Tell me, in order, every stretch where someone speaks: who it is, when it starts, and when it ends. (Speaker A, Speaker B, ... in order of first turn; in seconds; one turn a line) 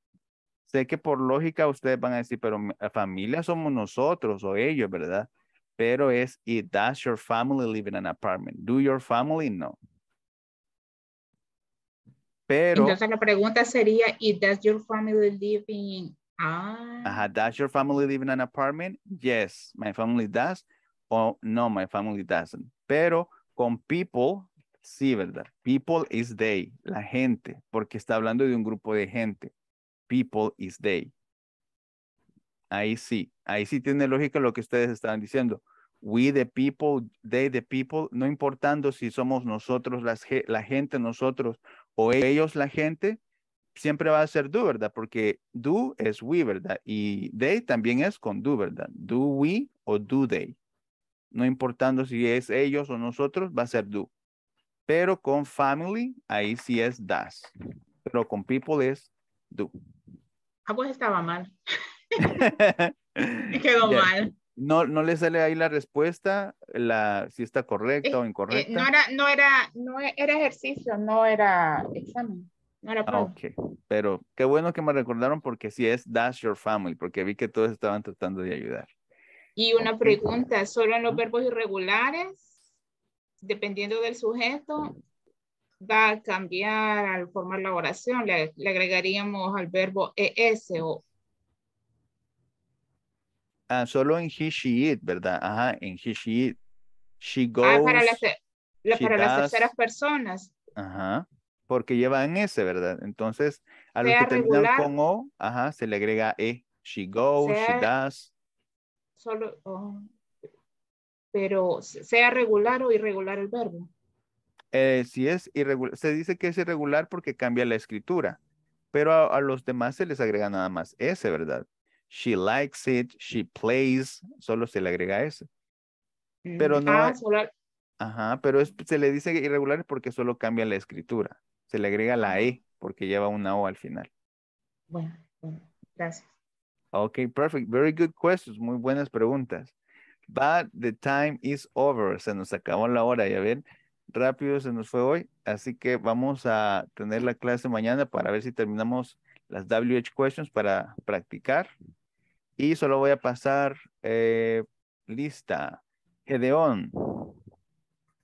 Speaker A: 0.7-9.8
Speaker A: 12.5-13.0
Speaker B: 12.8-17.2
Speaker A: 17.1-29.5
Speaker A: 30.1-31.1
Speaker A: 32.7-43.2
Speaker A: 43.8-50.6
Speaker A: 51.3-54.1
Speaker A: 54.9-57.5
Speaker A: 58.0-59.7
Speaker B: 60.7-61.5
Speaker A: 62.2-68.9
Speaker B: 63.5-64.3
Speaker B: 68.0-73.3
Speaker A: 73.1-78.9
Speaker B: 79.6-82.5
Speaker A: 79.8-80.2
Speaker B: 83.4-84.9
Speaker B: 85.8-91.0
Speaker A: 93.7-96.6
Speaker A: 97.2-98.2
Speaker B: 97.6-100.5
Speaker A: 98.9-99.7
Speaker A: 100.8-108.3
Speaker B: 104.0-104.9
Speaker B: 107.4-107.9
Speaker B: 109.2-110.1
Speaker B: 111.3-113.9
Speaker A: 114.7-118.4
Speaker A: 118.9-125.5
Speaker B: 126.5-127.5
Speaker A: 126.6-127.2
Speaker A: 128.0-134.1
Speaker B: 134.9-136.3
Speaker A: 136.9-139.7
Speaker A: 140.3-151.7
Speaker A: 152.6-157.3